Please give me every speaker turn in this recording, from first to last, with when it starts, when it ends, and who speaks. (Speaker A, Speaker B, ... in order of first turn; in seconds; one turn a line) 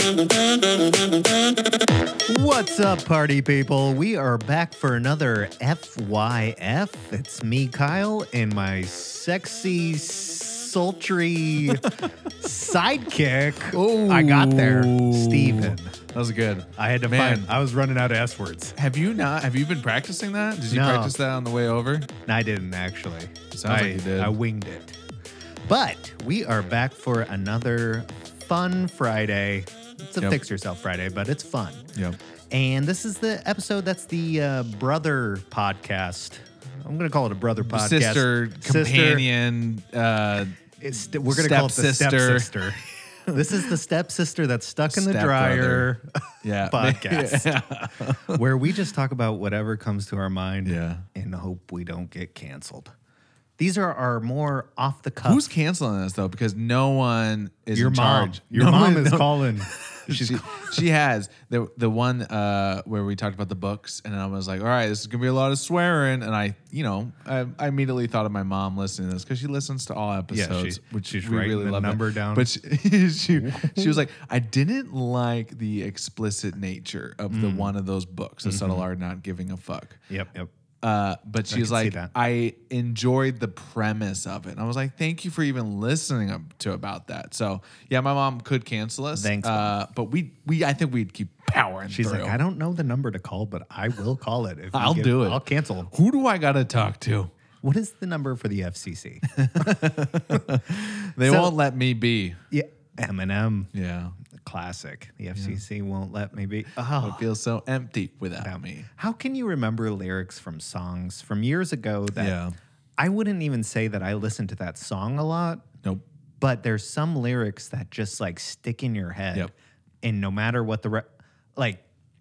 Speaker A: 2.3-16.0
Speaker B: 11.7-12.1
Speaker B: 13.6-17.5
Speaker A: 16.8-18.8
Speaker B: 18.8-22.1
Speaker A: 20.7-21.1
Speaker A: 22.3-25.0
Speaker B: 23.5-24.4
Speaker A: 25.6-31.9
Speaker A: 32.5-39.3
Speaker B: 37.6-40.6
Speaker A: 40.8-47.6
Speaker B: 41.1-42.7
Speaker B: 43.3-43.7
Speaker B: 44.9-45.9
Speaker B: 46.4-48.4
Speaker A: 48.2-52.9
Speaker B: 50.6-51.0
Speaker A: 53.6-55.5
Speaker B: 55.2-80.0
Speaker A: 57.7-60.8
Speaker A: 70.3-72.5
Speaker A: 73.4-74.0
Speaker A: 77.3-77.7
Speaker A: 78.4-78.8
Speaker A: 80.1-80.5
Speaker B: 80.8-92.4
Speaker A: 81.5-82.1
Speaker A: 89.2-89.8
Speaker A: 91.9-95.9
Speaker B: 94.7-97.3
Speaker A: 97.6-99.8
Speaker B: 99.3-102.4
Speaker A: 101.2-101.5
Speaker A: 102.5-103.7
Speaker B: 103.7-104.2
Speaker A: 104.3-107.3
Speaker B: 105.3-105.6
Speaker B: 107.0-108.9
Speaker A: 108.4-112.4
Speaker B: 112.2-112.5
Speaker A: 113.0-115.7
Speaker A: 116.4-121.8